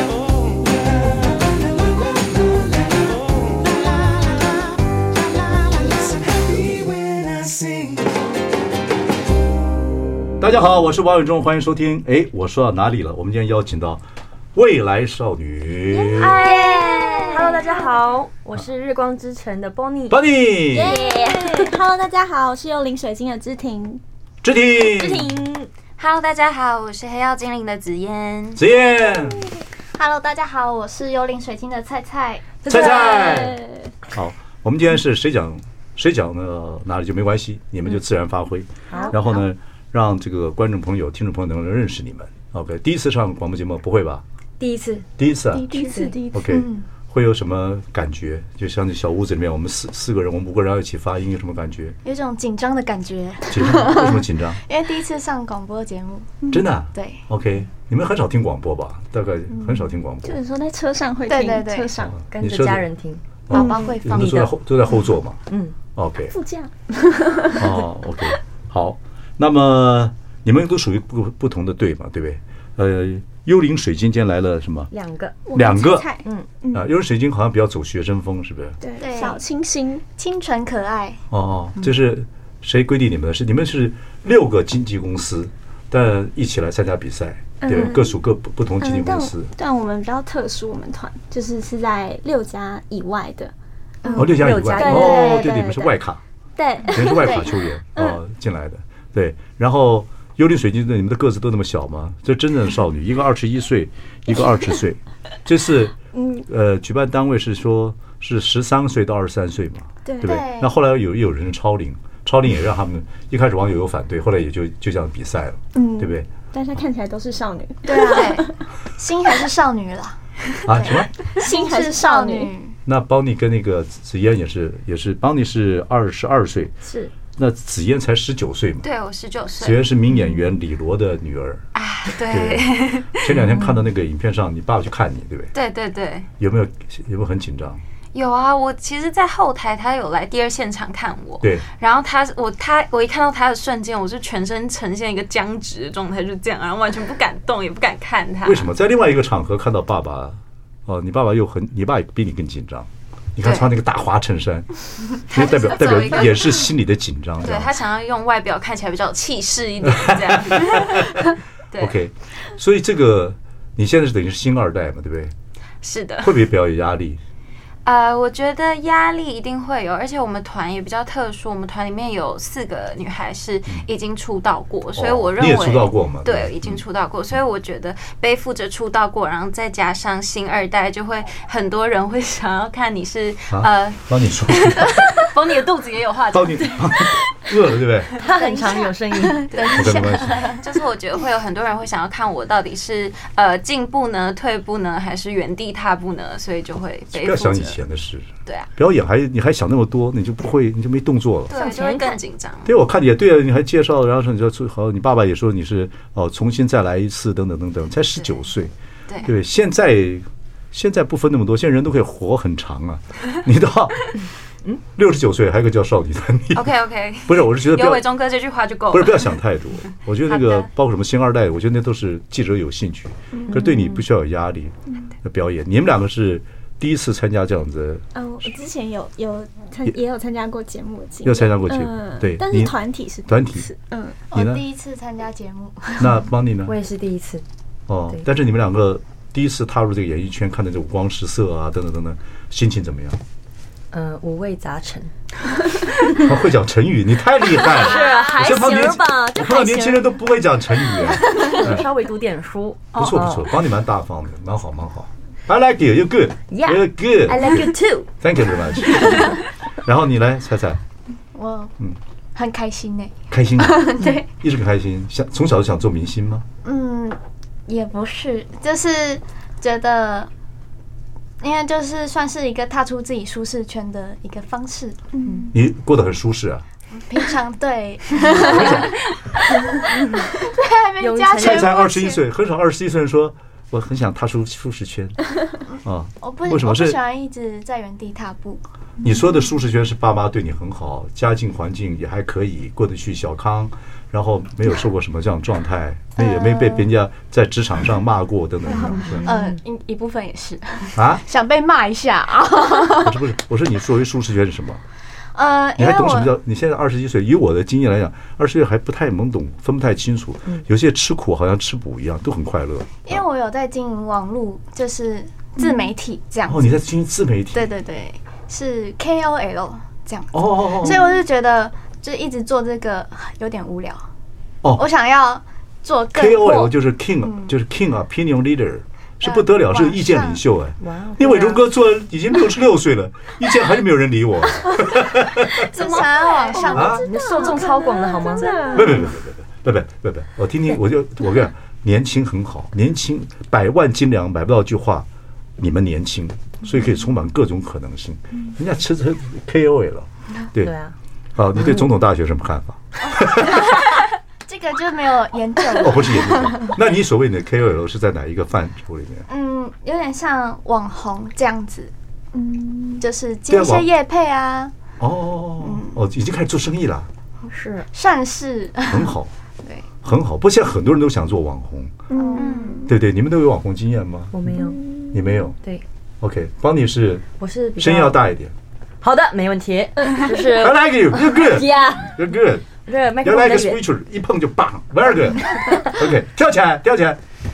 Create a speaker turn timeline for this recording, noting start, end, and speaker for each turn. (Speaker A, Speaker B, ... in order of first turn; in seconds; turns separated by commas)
Speaker A: 6.7-7.9, Speaker A: 10.4-14.0, Speaker A: 14.5-16.4, Speaker B: 16.1-20.2, Speaker C: 16.2-17.2, Speaker D: 16.2-17.9, Speaker E: 16.9-17.2, Speaker A: 20.1-21.1, Speaker D: 20.7-24.0, Speaker B: 21.1-21.4, Speaker A: 24.4-25.4, Speaker B: 25.0-25.5, Speaker D: 25.0-25.6, Speaker C: 26.0-28.6, Speaker A: 28.6-29.5, Speaker E: 29.9-32.5, Speaker B: 32.6-33.4, Speaker A: 32.7-44.2, Speaker D: 32.7-33.9, Speaker B: 38.9-39.2, Speaker B: 44.6-45.1, Speaker A: 45.2-45.7, Speaker E: 45.5-46.8, Speaker D: 45.6-46.6, Speaker A: 46.3-52.0, Speaker E: 52.0-57.2, Speaker A: 53.5-54.6, Speaker A: 56.5-60.4, Speaker E: 59.5-59.9, Speaker D: 60.2-62.2, Speaker E: 61.3-61.9, Speaker A: 62.0-62.8, Speaker B: 62.3-63.2, Speaker A: 63.5-65.4, Speaker E: 63.5-64.5, Speaker D: 63.5-64.0, Speaker B: 65.5-65.8, Speaker A: 65.9-66.3, Speaker D: 66.3-67.7, Speaker A: 67.5-74.9, Speaker B: 74.9-75.4, Speaker D: 75.5-76.9, Speaker A: 75.5-76.1, Speaker A: 76.7-78.8, Speaker D: 78.8-80.0, Speaker E: 79.0-79.4, Speaker E: 80.1-81.2, Speaker A: 81.3-89.5, Speaker D: 87.6-88.2, Speaker D: 88.8-93.5, Speaker E: 94.0-94.3, Speaker D: 94.0-95.9, Speaker B: 94.1-95.3, Speaker A: 94.1-96.2, Speaker E: 94.9-95.7, Speaker D: 96.6-98.2, Speaker A: 96.9-105.9, Speaker E: 97.0-97.5, Speaker D: 106.1-106.5, Speaker A: 106.5-116.3, Speaker D: 110.0-110.4, Speaker E: 110.2-110.7, Speaker D: 115.7-118.6, Speaker E: 117.8-122.8, Speaker C: 118.0-118.5, Speaker A: 120.7-121.1, Speaker D: 121.2-122.5, Speaker A: 122.8-126.7, Speaker B: 126.8-127.1, Speaker A: 127.4-128.9, Speaker C: 128.8-129.8, Speaker A: 129.6-131.6, Speaker C: 131.7-133.3, Speaker A: 132.2-135.5, Speaker C: 135.5-136.3, Speaker A: 136.4-137.8, Speaker C: 138.1-148.7, Speaker A: 148.4-154.7, Speaker C: 153.4-153.7, Speaker A: 155.3-157.7, Speaker C: 155.3-156.7, Speaker C: 157.4-161.9, Speaker A: 159.8-161.3, Speaker A: 161.8-165.3, Speaker C: 165.8-166.4, Speaker A: 166.2-167.2, Speaker C: 167.8-187.1, Speaker A: 174.9-176.8, Speaker A: 183.5-185.0, Speaker A: 186.3-188.1, Speaker B: 188.2-189.5, Speaker E: 188.3-190.6, Speaker C: 189.5-197.8, Speaker A: 189.7-190.5, Speaker A: 197.1-201.5, Speaker C: 198.4-198.7, Speaker C: 201.5-202.7, Speaker B: 201.5-202.2, Speaker A: 202.6-208.7, Speaker A: 209.2-214.1, Speaker A: 214.9-216.7, Speaker C: 216.5-219.4, Speaker A: 217.2-218.0, Speaker A: 218.9-228.0, Speaker C: 220.2-220.7, Speaker D: 223.3-223.6, Speaker B: 223.5-224.0, Speaker D: 228.1-234.2, Speaker A: 231.2-232.7, Speaker A: 233.3-233.7, Speaker E: 234.3-236.2, Speaker A: 234.3-234.6, Speaker A: 236.0-236.7, Speaker B: 236.7-237.4, Speaker A: 237.9-243.2, Speaker B: 243.9-245.1, Speaker A: 246.2-251.9, Speaker B: 247.6-250.1, Speaker C: 247.7-248.6, Speaker B: 251.2-253.5, Speaker A: 252.9-257.7, Speaker B: 256.5-258.1, Speaker A: 258.2-260.8, Speaker E: 261.3-261.7, Speaker E: 262.3-264.3, Speaker A: 263.3-266.4, Speaker E: 266.6-270.3, Speaker E: 271.4-275.1, Speaker D: 275.1-275.5, Speaker A: 275.5-276.6, Speaker E: 276.9-282.2, Speaker A: 278.3-278.9, Speaker B: 281.0-281.8, Speaker A: 281.4-285.2, Speaker E: 285.7-288.6, Speaker A: 285.8-287.0, Speaker A: 289.0-299.3, Speaker E: 296.1-296.9, Speaker B: 299.0-299.6, Speaker E: 299.2-303.2, Speaker A: 300.9-301.2, Speaker A: 303.0-304.8, Speaker E: 305.3-306.3, Speaker A: 305.8-313.2, Speaker E: 313.1-316.8, Speaker A: 316.5-317.7, Speaker E: 317.5-324.0, Speaker A: 320.3-321.1, Speaker E: 324.7-327.5, Speaker A: 326.1-335.7, Speaker E: 329.2-330.4, Speaker B: 330.8-331.6, Speaker E: 335.6-337.5, Speaker C: 335.7-336.9, Speaker D: 336.5-339.1, Speaker A: 336.7-337.0, Speaker B: 336.7-338.8, Speaker A: 338.7-345.1, Speaker A: 345.6-350.7, Speaker B: 350.6-350.9, Speaker A: 351.4-353.9, Speaker E: 353.1-356.8, Speaker A: 355.7-359.2, Speaker E: 359.3-361.9, Speaker D: 362.3-363.0, Speaker E: 363.0-364.7, Speaker A: 363.5-363.9, Speaker A: 365.0-367.1, Speaker E: 365.6-366.0, Speaker B: 367.5-367.9, Speaker E: 367.9-369.9, Speaker A: 368.9-369.3, Speaker A: 370.0-372.0, Speaker D: 372.1-372.9, Speaker E: 372.1-372.9, Speaker C: 372.4-372.8, Speaker A: 372.9-374.3, Speaker B: 374.3-374.8, Speaker D: 374.6-375.2, Speaker A: 375.1-375.6, Speaker A: 376.2-377.2, Speaker B: 377.4-378.2, Speaker A: 377.8-378.5, Speaker B: 379.0-382.2, Speaker A: 380.4-382.6, Speaker B: 382.7-383.8, Speaker A: 383.2-387.2